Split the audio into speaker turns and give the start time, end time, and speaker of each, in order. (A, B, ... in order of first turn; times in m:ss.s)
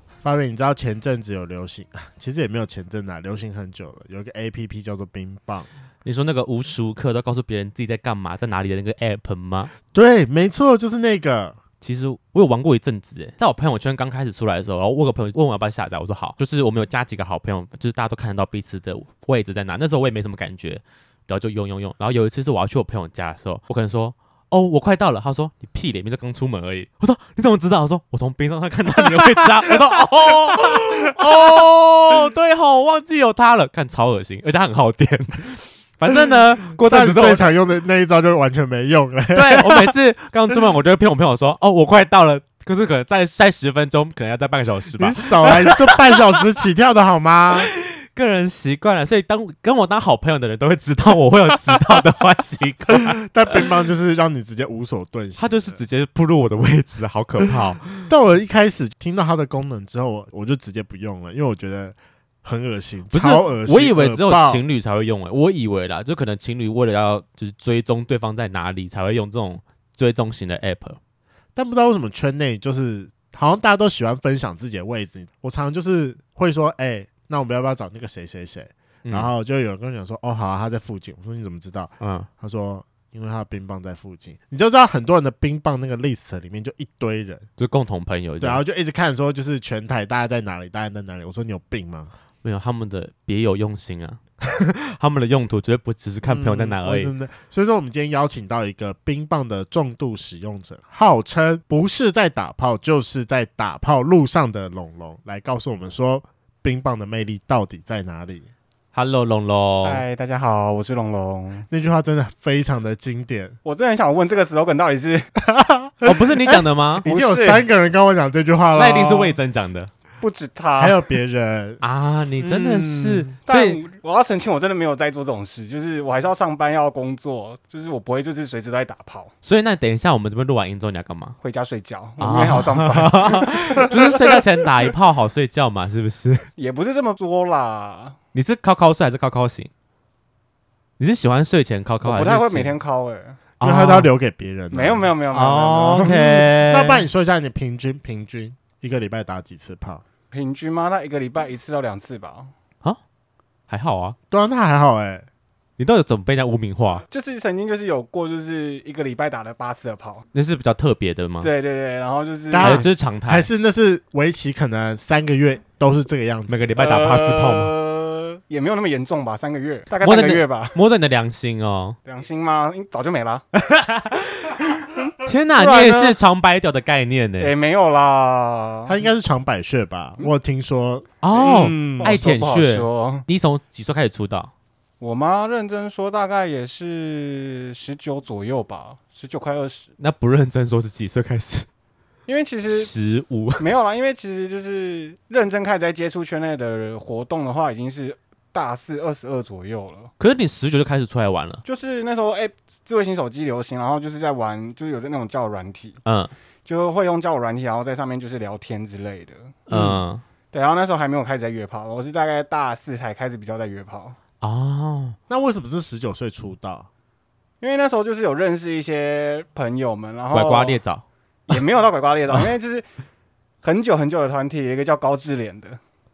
0:00.2-0:05.7 A
0:06.0-0:09.7 B
0:09.9-0:11.6 A
0:11.8-0:37.4 B
0:29.0-0:31.6 A
0:36.1-0:39.9 A
0:39.3-0:46.4 B
0:45.0-0:47.7 A
0:47.6-0:53.7 B
0:52.9-0:55.8 A
0:55.4-0:58.1 B
0:58.1-1:04.6 A
1:03.1-1:11.0 B
1:11.6-1:27.4 A
1:19.0-1:19.3 B
1:22.0-1:22.3 B
1:27.6-1:28.6 B
1:28.4-1:32.1 A
1:32.4-1:37.1 B
1:36.2-1:48.5 A
1:48.9-1:50.0 B
1:49.8-1:51.7 C
1:51.7-1:53.6 A
1:53.6-1:55.3 C
1:55.4-1:59.4 A
1:56.0-1:57.0 B
1:57.0-1:57.6 C
1:58.7-1:59.9 B
2:00.2-2:01.0 C
2:00.8-2:01.8 A
2:01.8-2:03.8 B
2:02.4-2:03.3 A
2:03.4-2:09.3 C
2:09.4-2:11.4 B
2:11.4-2:14.3 C
2:12.2-2:16.5 B
2:16.6-2:18.2 C
2:18.3-2:19.7 B
2:21.0-2:22.7 B
2:22.0-2:23.4 C
2:23.6-2:24.1 B
2:23.6-2:25.1 A
2:24.7-2:26.1 C
2:25.3-2:27.0 B
2:25.9-2:30.0 A
2:30.3-2:32.5 C
2:33.7-2:34.2 B
2:34.3-2:35.3 A
2:35.8-2:37.0 B
2:37.1-2:40.2 C
2:40.3-2:41.5 B
2:41.4-2:42.9 C
2:42.5-2:46.7 A
2:42.6-2:43.5 B
2:46.5-2:47.7 B
2:46.8-2:50.8 C
2:50.0-2:52.0 B
2:52.0-2:53.4 C
2:53.6-2:54.6 B
2:55.2-2:57.5 B
2:55.6-2:56.2 C
2:57.4-2:58.9 C
2:58.9-3:02.1 A
3:01.2-3:04.5 B
3:02.0-3:03.2 C
3:05.0-3:09.9 C
3:10.0-3:11.7 B
3:12.3-3:12.9 C
3:12.7-3:13.6 B
3:13.6-3:20.1 C
3:20.2-3:21.6 B
3:21.6-3:26.0 C
3:26.0-3:26.3 B
3:26.6-3:29.6 C
3:29.7-3:30.2 B
3:29.7-3:30.0 A
3:30.5-3:34.2 C
3:34.4-3:35.2 B
3:35.3-3:36.9 A
3:37.6-3:40.8 C
3:40.3-3:41.0 B
3:41.5-3:42.8 C
3:43.6-3:45.8 C